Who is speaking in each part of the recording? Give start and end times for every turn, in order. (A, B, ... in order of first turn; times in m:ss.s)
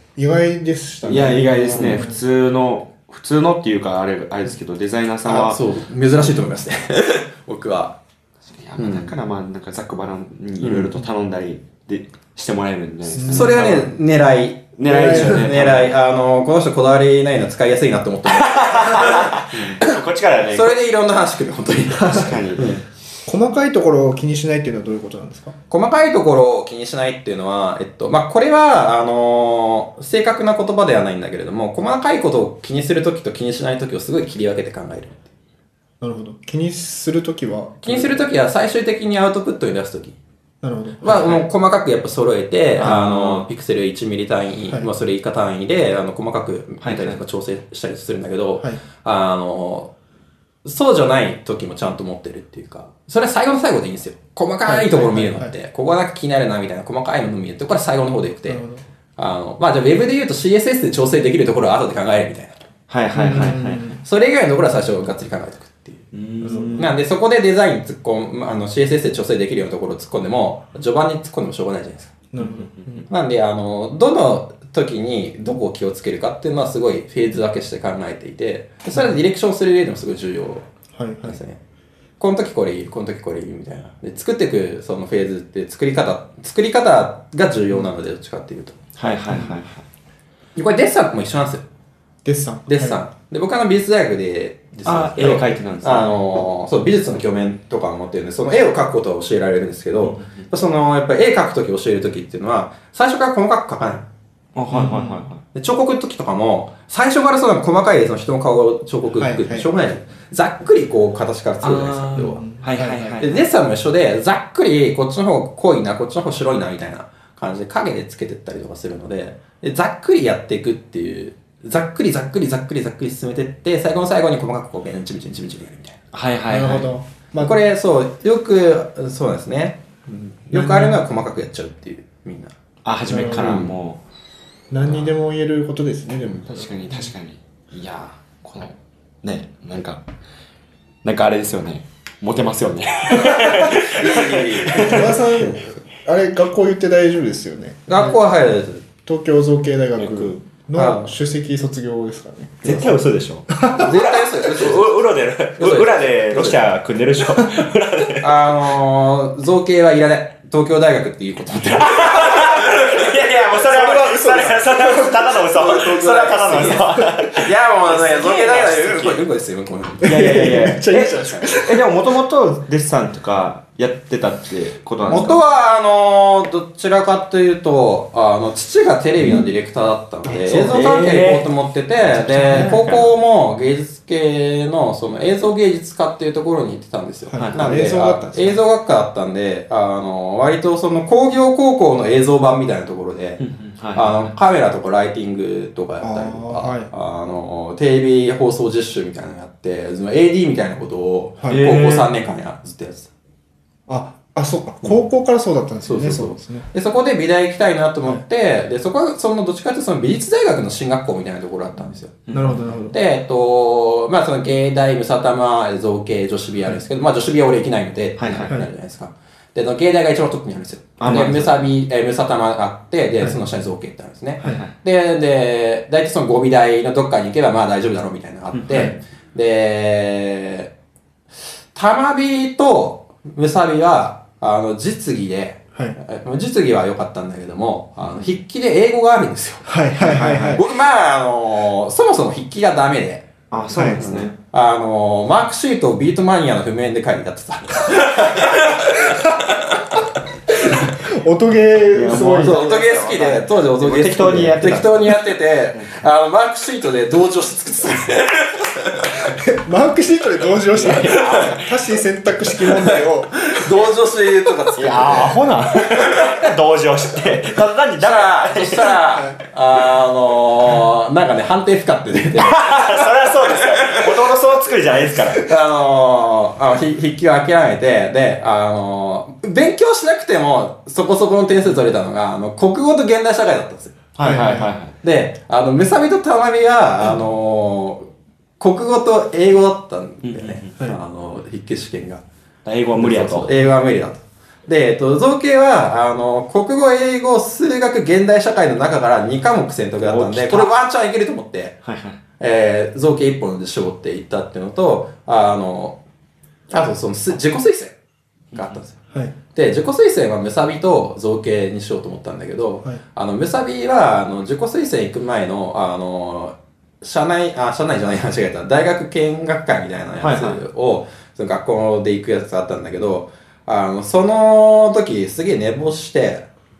0:00.2-0:02.1 A
0:01.0-0:05.6 B
0:01.7-0:02.0 C
0:05.2-0:08.0 C
0:08.5-0:13.9 B
0:08.8-0:09.1 C
0:10.6-0:11.0 C
0:13.1-0:13.6 A
0:13.2-0:19.8 C
0:14.8-0:15.9 B
0:14.9-0:15.5 A
0:18.3-0:20.8 B
0:20.5-0:22.8 C
0:22.0-0:22.8 B
0:23.2-0:25.6 A
0:25.7-0:35.3 C
0:36.0-0:38.2 A
0:37.8-0:40.2 C
0:40.6-0:41.4 A
0:41.0-0:49.9 C
0:42.8-0:43.5 B
0:46.8-0:47.2 B
0:50.6-0:58.6 C
0:54.6-0:55.5 A
0:58.5-0:58.8 A
0:59.2-1:02.6 C
1:02.9-1:03.8 B
1:03.1-1:04.0 A
1:04.0-1:06.1 C
1:06.1-1:06.9 B
1:06.4-1:06.8 A
1:06.7-1:12.3 C
1:12.3-1:13.1 A
1:12.4-1:13.0 B
1:13.1-1:20.6 C
1:21.0-1:21.4 A
1:21.2-1:21.6 C
1:22.2-1:28.8 C
1:29.0-1:29.8 B
1:30.6-1:31.6 C
1:32.2-1:33.0 A
1:32.7-1:44.0 C
1:34.8-1:36.2 B
1:40.0-1:40.5 B
1:44.5-1:45.4 B
1:44.7-1:45.3 A
1:45.5-1:52.4 C
1:49.2-1:49.7 A
1:51.6-1:53.4 B
1:52.2-1:53.2 A
1:53.2-2:06.0 C
2:06.1-2:06.9 B
2:06.5-2:07.6 A
2:07.4-2:12.6 C
2:10.5-2:11.0 A
2:12.8-2:14.0 B
2:13.1-2:13.5 A
2:13.3-2:13.8 C
2:14.7-2:17.1 A
2:14.8-2:15.1 B
2:16.4-2:20.0 B
2:21.0-2:25.5 B
2:23.6-2:25.5 C
2:24.7-2:28.2 A
2:27.9-2:28.8 C
2:29.0-2:32.9 A
2:30.0-2:30.3 B
2:30.7-2:31.2 C
2:32.6-2:38.5 B
2:33.5-2:33.8 A
2:33.7-2:35.0 C
2:35.6-2:36.6 C
2:38.2-2:43.0 C
2:41.8-2:49.2 B
2:43.7-2:45.1 A
2:45.4-2:50.2 C
2:50.0-2:51.8 A
2:50.0-2:55.4 B
2:55.1-3:23.1 C
3:00.2-3:00.8 A
3:00.7-3:01.5 B
3:02.0-3:03.1 B
3:02.2-3:02.8 A
3:07.3-3:08.6 A
3:07.4-3:07.7 B
3:13.4-3:14.3 B
3:16.0-3:16.9 A
3:21.5-3:22.1 B
3:23.9-3:26.6 A
3:25.9-3:32.3 C
3:32.3-3:32.7 B
3:32.3-3:33.0 A
3:32.9-3:50.7 C
3:38.2-3:38.6 B
3:41.0-3:41.7 B
3:44.4-3:44.7 B
3:48.5-3:48.9 B
3:48.7-3:49.0 A
3:51.7-4:03.3 C
3:59.6-4:00.6 A
4:00.0-4:00.6 B
4:03.5-4:04.3 B
4:03.7-4:04.1 A
4:03.8-4:09.8 C
4:10.5-4:12.6 A
4:11.9-4:15.9 B
4:12.4-4:19.3 C
4:19.3-4:23.6 A
4:20.6-4:21.8 B
4:23.5-4:26.4 C
4:24.8-4:29.0 B
4:28.0-4:34.2 C
4:32.3-4:35.5 B
4:35.3-4:44.4 C
4:44.2-4:44.9 B
4:44.2-4:44.7 A
4:45.0-4:48.1 C
4:48.6-4:52.2 C
4:50.2-4:50.7 B
4:52.6-4:53.5 B
4:53.0-5:01.8 C
5:00.0-5:00.7 B
5:01.8-5:02.2 B
5:02.4-5:06.0 C
5:06.7-5:07.9 C
5:08.5-5:26.4 C
5:20.2-5:20.6 B